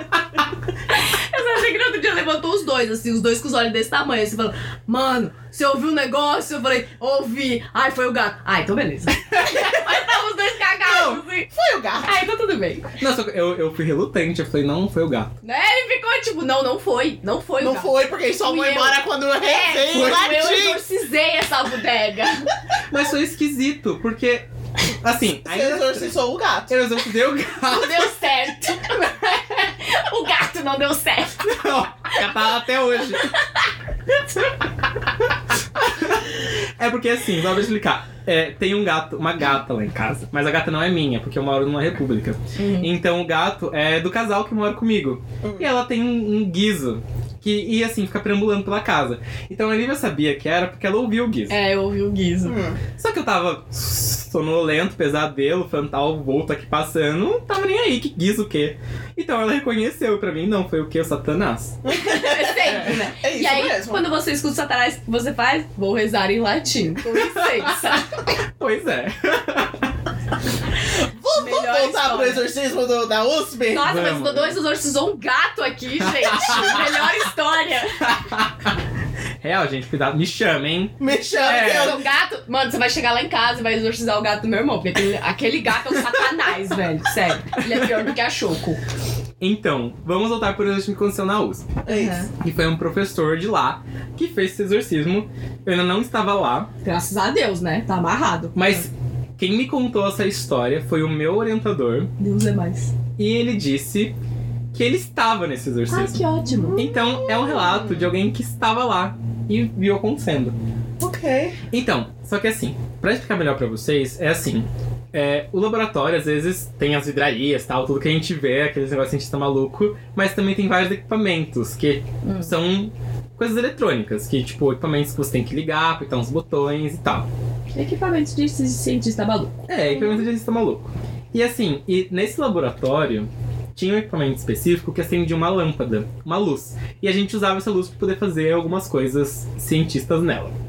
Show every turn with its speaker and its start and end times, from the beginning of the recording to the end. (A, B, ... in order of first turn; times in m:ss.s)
0:00.9-0:11.5 A
0:09.2-0:09.8 B
0:10.8-0:11.2 B
0:11.5-0:12.2 C
0:12.0-0:12.9 A
0:13.0-0:15.3 B
0:15.4-0:22.5 A
0:17.6-0:20.8 C
0:22.9-0:26.1 B
0:25.4-0:26.8 C
0:26.7-0:28.1 B
0:27.7-0:33.6 A
0:31.4-0:33.3 B
0:35.8-0:51.6 B
0:42.6-0:42.9 A
0:45.4-0:45.7 C
0:51.5-0:52.6 A
0:52.4-0:52.8 C
0:53.0-1:01.8 B
1:01.8-1:04.1 C
1:01.9-1:08.2 A
1:07.1-1:08.0 B
1:08.6-1:09.9 B
1:11.0-1:14.0 C
1:11.3-1:12.5 A
1:13.7-1:18.1 A
1:13.8-1:14.6 B
1:16.0-1:16.8 B
1:18.0-1:18.7 B
1:19.4-1:22.0 B
1:21.0-1:22.1 C
1:21.1-1:28.8 A
1:25.9-1:26.2 B
1:27.6-1:27.9 B
1:29.4-1:31.8 B
1:31.8-1:32.3 C
1:31.9-1:32.3 A
1:32.4-1:36.7 B
1:36.8-1:38.8 A
1:38.5-1:42.1 B
1:42.2-1:42.9 A
1:43.2-1:44.1 B
1:44.7-1:50.6 B
1:45.9-1:46.8 A
1:46.6-1:48.1 C
1:51.0-1:51.6 C
1:51.7-2:07.3 B
2:02.2-2:02.5 A
2:07.7-2:10.3 A
2:09.7-2:20.5 B